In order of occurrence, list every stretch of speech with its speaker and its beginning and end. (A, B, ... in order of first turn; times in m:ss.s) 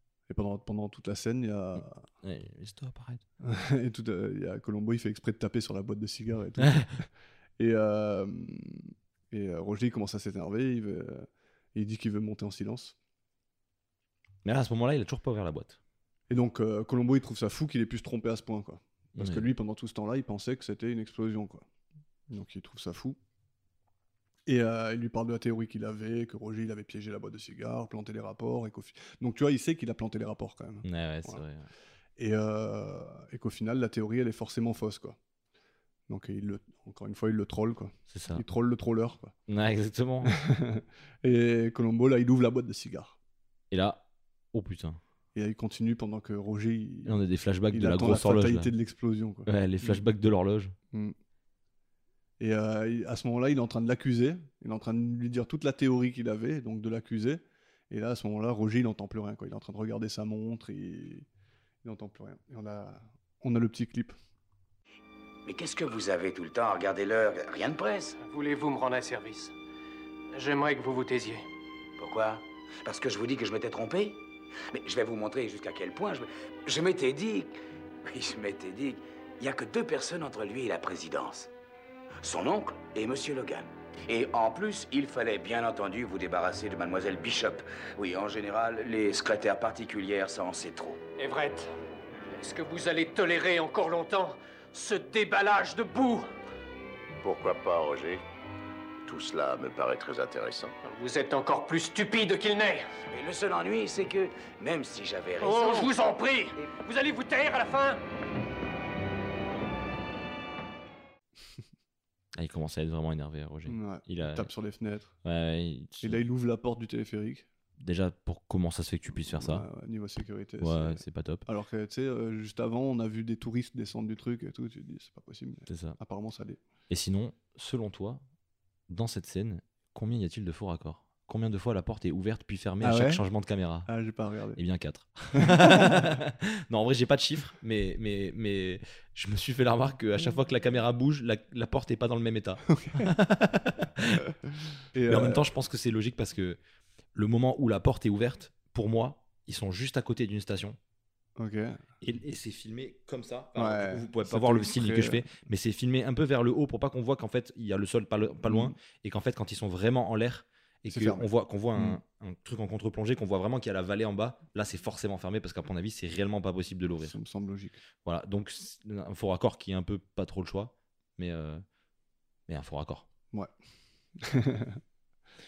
0:00.3-0:02.0 A
0:01.8-0:03.2 B
0:03.4-0:07.1 A
0:06.6-0:06.9 B
0:07.6-0:13.0 A
0:14.4-0:15.8 B
0:16.3-0:21.6 A
0:19.2-0:19.5 B
0:22.3-0:23.2 A
0:24.5-0:31.4 A
0:30.8-0:31.7 B
0:32.2-0:35.2 A
0:36.1-0:39.3 A
0:38.1-0:38.4 B
0:39.5-0:40.4 B
0:40.2-0:43.2 A
0:43.7-0:45.0 B
0:45.4-0:47.2 A
0:47.1-0:48.7 B
0:47.7-0:50.0 A
0:49.5-0:50.7 B
0:52.4-1:01.3 A
1:01.8-1:04.2 A
1:05.4-1:08.2 C
1:08.2-1:09.5 D
1:10.3-1:11.4 D
1:12.0-1:14.2 C
1:14.7-1:17.5 C
1:18.0-1:21.5 C
1:22.2-1:31.0 C
1:31.2-1:31.7 D
1:32.3-1:36.3 D
1:37.2-1:38.2 E
1:39.0-1:40.7 E
1:40.8-1:42.9 D
1:43.1-1:45.9 C
1:45.4-1:48.0 D
1:52.4-1:54.5 B
1:53.7-1:55.1 A
1:55.2-1:56.2 B
1:56.0-1:57.5 A
1:57.8-1:59.7 B
1:59.1-2:06.6 A
2:00.6-2:01.4 B
2:05.7-2:06.0 B
2:06.9-2:08.2 B
2:08.9-2:13.9 B
2:12.8-2:13.2 A
2:13.9-2:14.6 A
2:14.6-2:24.2 B
2:15.4-2:16.2 A
2:22.7-2:23.1 A
2:24.9-2:25.5 A
2:25.1-2:26.6 B
2:27.2-2:30.8 B
2:31.4-2:31.8 A
2:32.0-2:47.2 B
2:33.6-2:35.3 A
2:38.5-2:38.7 A
2:40.9-2:42.0 A
2:47.0-2:47.8 A
2:48.0-2:51.6 B
2:52.5-2:53.1 B
2:54.2-2:54.8 A